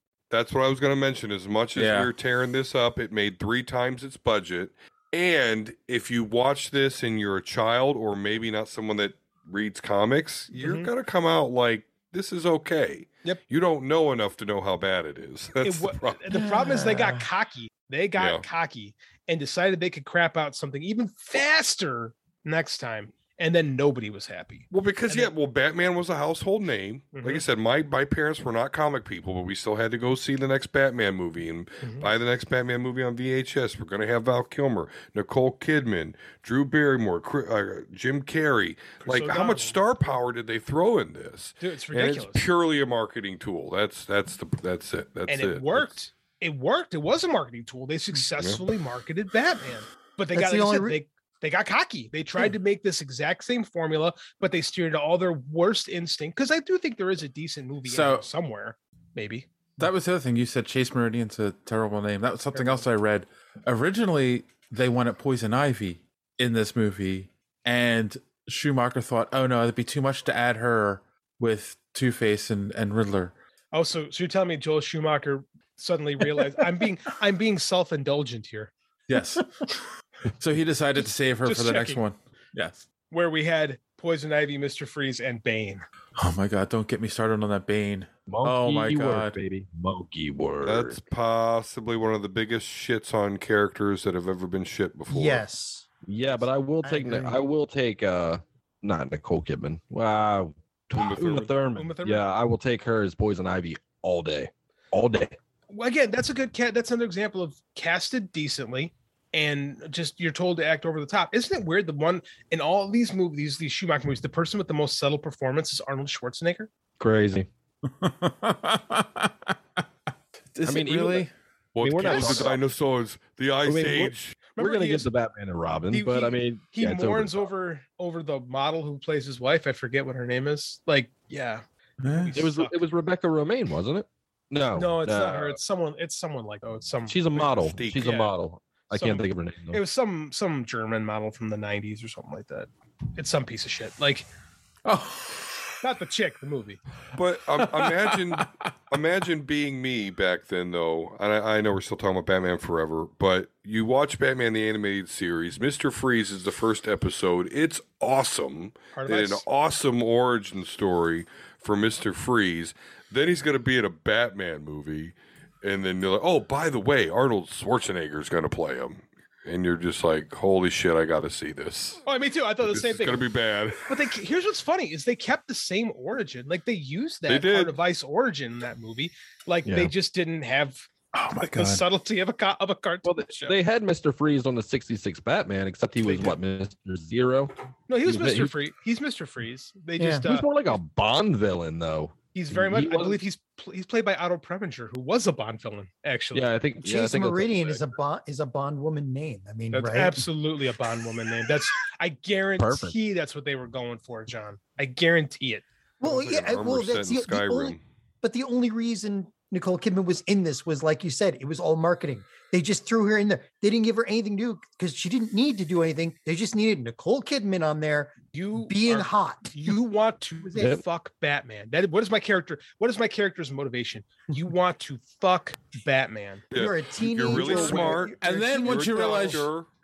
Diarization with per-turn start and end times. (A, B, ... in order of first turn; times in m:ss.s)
0:00.3-0:16.2 A
0:01.8-0:02.1 B
0:10.5-0:10.9 C
0:15.6-0:25.3 C
0:16.3-0:17.3 D
0:18.2-0:18.4 A
0:24.7-0:46.0 A
0:27.1-0:27.4 C
0:31.8-0:32.1 C
0:39.0-0:39.8 C
0:41.6-0:42.4 C
0:45.3-0:59.5 C
0:50.3-0:51.0 D
0:57.9-0:58.2 B
0:59.8-1:13.3 B
1:13.7-1:18.7 C
1:19.1-1:19.8 B
1:20.4-1:22.8 B
1:21.0-1:22.0 C
1:23.1-1:25.8 C
1:26.2-1:29.4 B
1:28.3-1:31.0 E
1:30.6-1:35.4 A
1:35.1-1:35.9 D
1:36.1-1:45.4 E
1:36.8-1:37.4 D
1:40.9-1:41.5 A
1:41.8-1:42.2 C
1:45.7-1:56.7 C
1:57.0-1:57.5 E
1:57.9-1:59.6 B
2:00.6-2:01.3 B
2:00.6-2:01.3 E
2:01.8-2:04.4 A
2:01.8-2:02.6 E
2:02.0-2:02.5 C
2:03.6-2:07.5 E
2:04.6-2:05.1 C
2:05.9-2:11.6 C
2:12.0-2:12.4 B
2:12.2-2:12.8 C
2:12.3-2:15.6 E
2:14.8-2:18.3 C
2:17.1-2:19.8 E
2:17.8-2:18.1 A
2:18.9-2:24.3 C
2:24.8-2:25.7 B
2:25.8-2:26.8 C
2:27.2-2:52.0 A
2:27.6-2:28.5 B
2:39.0-2:39.4 C
2:52.1-2:53.3 C
2:52.6-2:53.9 A
2:53.9-3:00.9 C
2:57.3-2:57.8 A
2:59.6-2:59.9 E
3:01.1-3:01.8 B
3:01.5-3:03.6 C
3:03.0-3:07.5 E
3:06.0-3:06.4 C
3:07.9-3:10.7 C
3:08.1-3:08.5 E
3:10.0-3:10.2 D
3:10.2-3:13.2 E
3:12.3-3:16.5 C
3:16.3-3:17.8 E
3:16.8-3:20.3 D
3:19.7-3:25.6 C
3:22.6-3:23.0 E
3:26.0-3:39.8 D
3:26.0-3:27.8 A
3:38.3-3:46.4 C
3:40.6-3:40.8 E
3:46.5-3:49.7 A
3:46.5-3:49.5 D
3:48.2-3:49.5 B